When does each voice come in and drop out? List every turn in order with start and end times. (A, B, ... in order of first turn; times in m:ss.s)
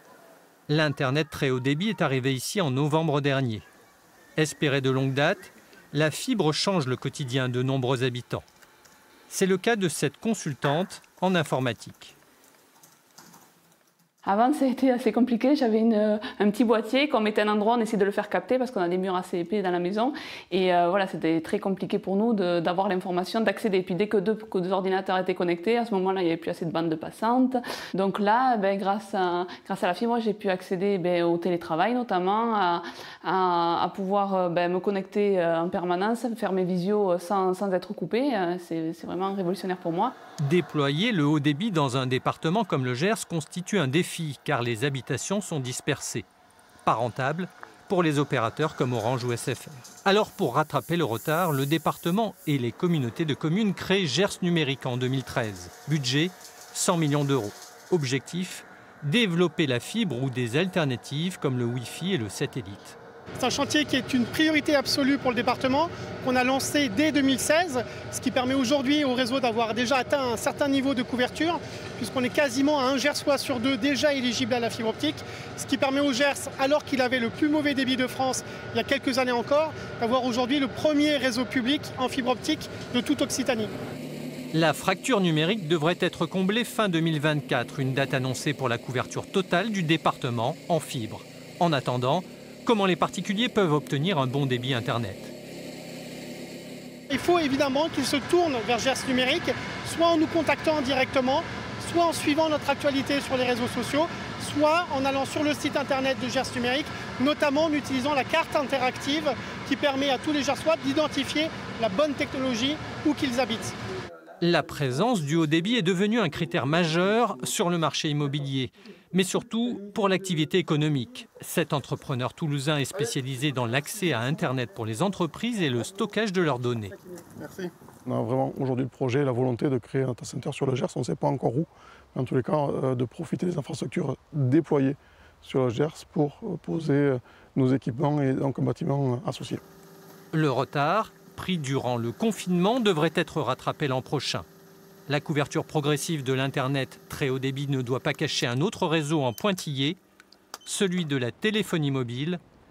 0:00.7-0:03.7 A
0:04.4-0:08.5 A
0:09.3-0:12.1 A
0:14.2-0:40.1 B
0:40.4-0:46.3 A
0:46.8-1:03.0 A
1:03.4-1:23.7 C
1:24.5-1:35.3 A
1:37.1-1:53.8 C
1:54.4-2:06.9 A
2:07.1-2:19.6 D
2:20.3-2:24.5 A
2:25.1-2:30.0 A
2:30.6-2:32.4 A